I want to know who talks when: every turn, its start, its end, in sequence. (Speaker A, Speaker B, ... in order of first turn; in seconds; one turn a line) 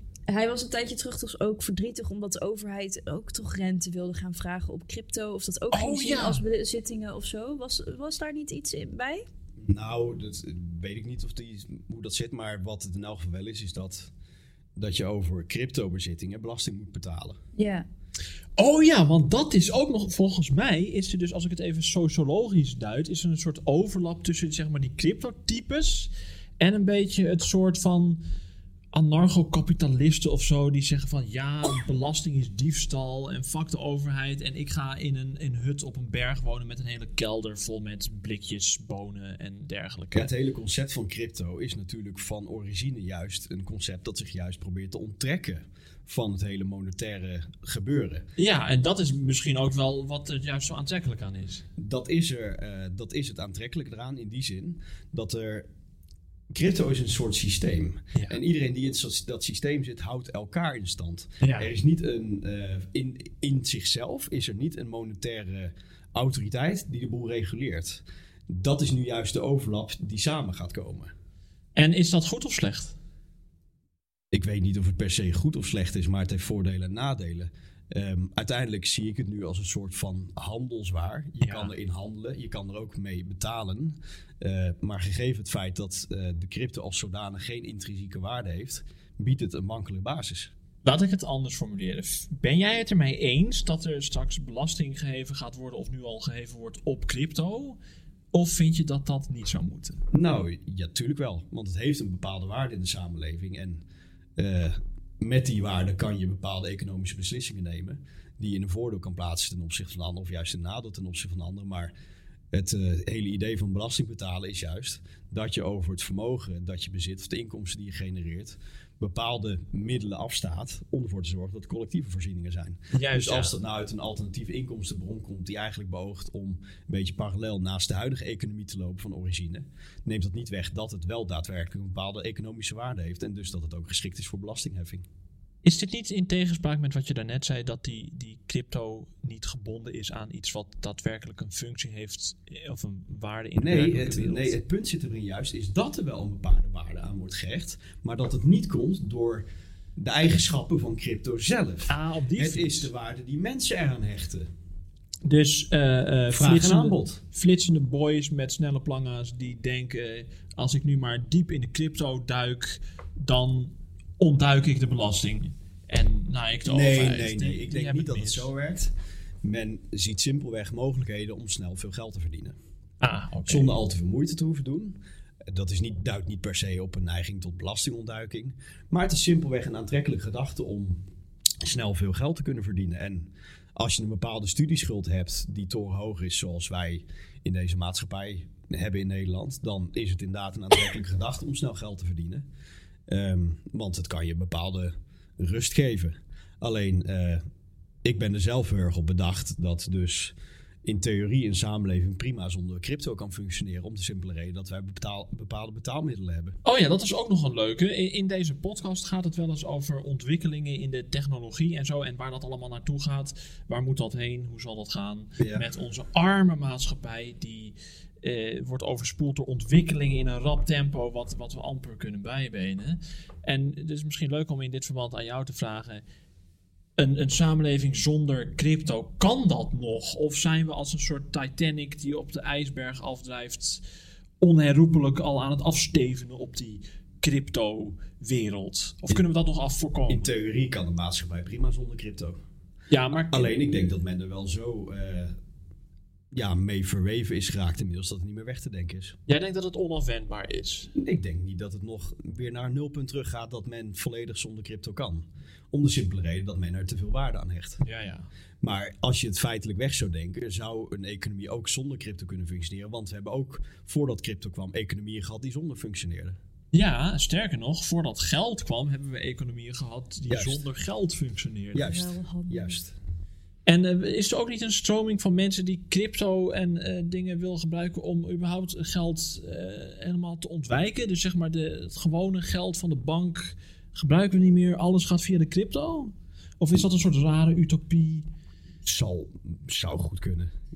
Speaker A: 0.3-9.2
Speaker B: 5.7-6.4
Speaker C: 9.7-14.1
Speaker C: 14.8-17.4
Speaker A: 17.6-17.9
Speaker B: 18.6-28.2
Speaker B: 28.9-40.3
Speaker C: 40.1-48.3
Speaker B: 48.4-51.6
Speaker C: 51.8-55.7
Speaker C: 56.5-71.1
Speaker B: 61.4-61.7
Speaker B: 71.8-73.0
Speaker C: 74.3-90.5
Speaker B: 81.4-81.7
Speaker B: 90.8-97.8
Speaker B: 98.3-100.0
Speaker C: 100.1-103.8
Speaker C: 104.3-111.9
Speaker C: 112.5-135.1
Speaker B: 122.9-123.5
Speaker B: 135.6-144.6
Speaker C: 143.6-154.5
Speaker B: 151.9-152.9
Speaker B: 155.2-168.5
Speaker C: 156.3-157.2
Speaker C: 166.7-172.6
Speaker B: 173.0-173.8
Speaker C: 173.4-181.0
Speaker C: 181.6-192.4
Speaker C: 193.1-197.4
Speaker C: 198.0-206.6
Speaker B: 206.6-226.0
Speaker C: 215.4-215.7
Speaker B: 227.0-233.8
Speaker B: 234.4-240.3
Speaker C: 240.1-242.4
Speaker B: 242.9-243.5
Speaker C: 243.3-245.3
Speaker C: 246.3-249.2
Speaker B: 249.3-250.9
Speaker C: 250.9-257.8
Speaker B: 257.8-258.3
Speaker C: 258.6-266.4
Speaker B: 266.7-271.9
Speaker C: 270.3-270.6
Speaker C: 271.7-272.9
Speaker A: 271.8-272.7
Speaker B: 273.6-288.3
Speaker C: 288.8-290.5